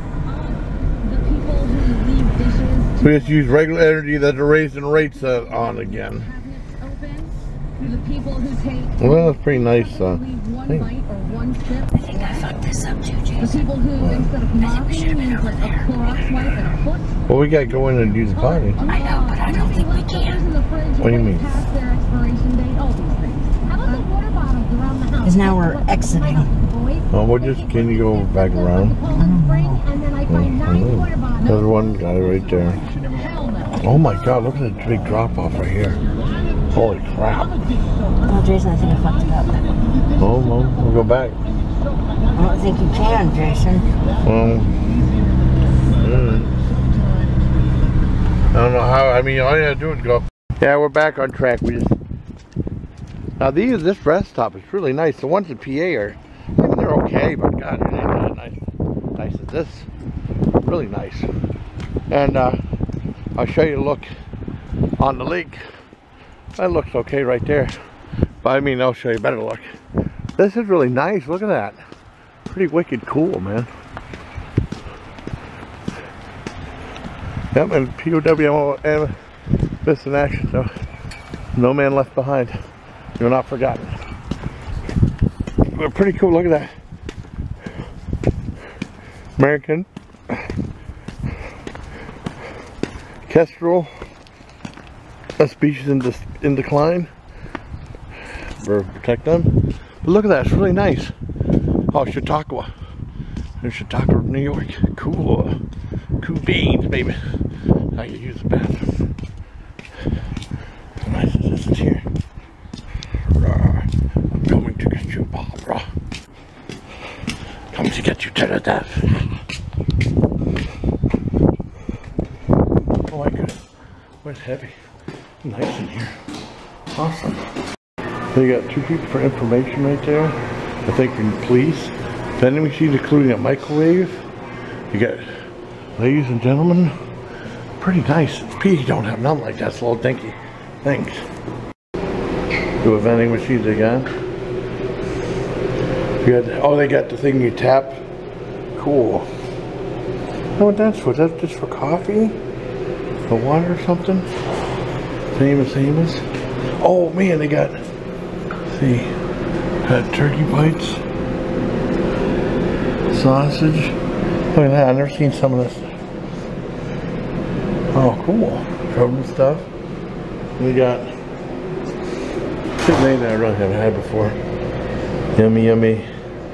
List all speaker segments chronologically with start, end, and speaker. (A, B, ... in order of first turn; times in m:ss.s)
0:00.3-0:03.4 A
0:03.0-0:06.3 B
0:05.3-0:12.4 A
0:09.0-0:10.9 B
0:11.9-0:13.7 C
0:13.4-0:17.1 A
0:14.0-0:14.3 B
0:14.6-0:16.4 C
0:17.3-0:18.8 B
0:18.3-0:31.6 A
0:18.8-0:20.4 C
0:21.0-0:21.6 B
0:25.2-0:26.5 C
0:27.1-0:29.0 B
0:29.2-0:29.8 C
0:30.3-0:32.8 B
0:33.2-0:33.8 A
0:33.8-0:36.0 B
0:36.7-0:37.5 B
0:38.3-0:39.8 C
0:40.2-0:41.4 B
0:42.4-0:43.9 C
0:44.2-0:44.7 B
0:46.0-0:46.5 B
0:48.5-0:52.0 B
0:53.4-0:58.6 B
0:59.2-0:59.9 B
1:00.6-1:01.3 B
1:02.1-1:02.6 B
1:03.4-1:04.1 B
1:05.0-1:05.6 B
1:06.6-1:07.8 B
1:08.4-1:09.8 B
1:10.4-1:11.8 B
1:12.5-1:13.7 B
1:17.5-1:19.2 B
1:19.8-1:20.7 B
1:21.6-1:22.6 B
1:23.2-1:24.0 B
1:25.7-1:26.7 B
1:29.4-1:30.4 B
1:33.2-1:33.9 B
1:35.4-1:37.1 B
1:38.6-1:39.5 B
1:40.0-1:41.1 B
1:41.9-1:42.7 B
1:43.6-1:45.6 B
1:46.2-1:47.2 B
1:47.9-1:49.1 B
1:51.0-1:52.0 B
1:53.3-1:55.9 B
1:57.7-1:59.2 B
2:03.1-2:03.6 B
2:04.2-2:04.8 B
2:05.4-2:06.2 B
2:06.9-2:07.4 B
2:08.3-2:14.2 B
2:14.9-2:16.9 B
2:17.8-2:21.2 B
2:22.8-2:24.1 B
2:26.2-2:28.0 B
2:28.8-2:29.3 B
2:30.6-2:32.4 B
2:33.2-2:34.3 B
2:35.3-2:36.2 B
2:36.8-2:37.8 B
2:38.7-2:39.1 B
2:39.8-2:41.0 B
2:43.1-2:44.0 B
2:44.5-2:45.9 B
2:47.9-2:49.7 B
2:50.6-2:51.1 B
2:52.8-2:54.4 B
2:55.3-2:56.1 B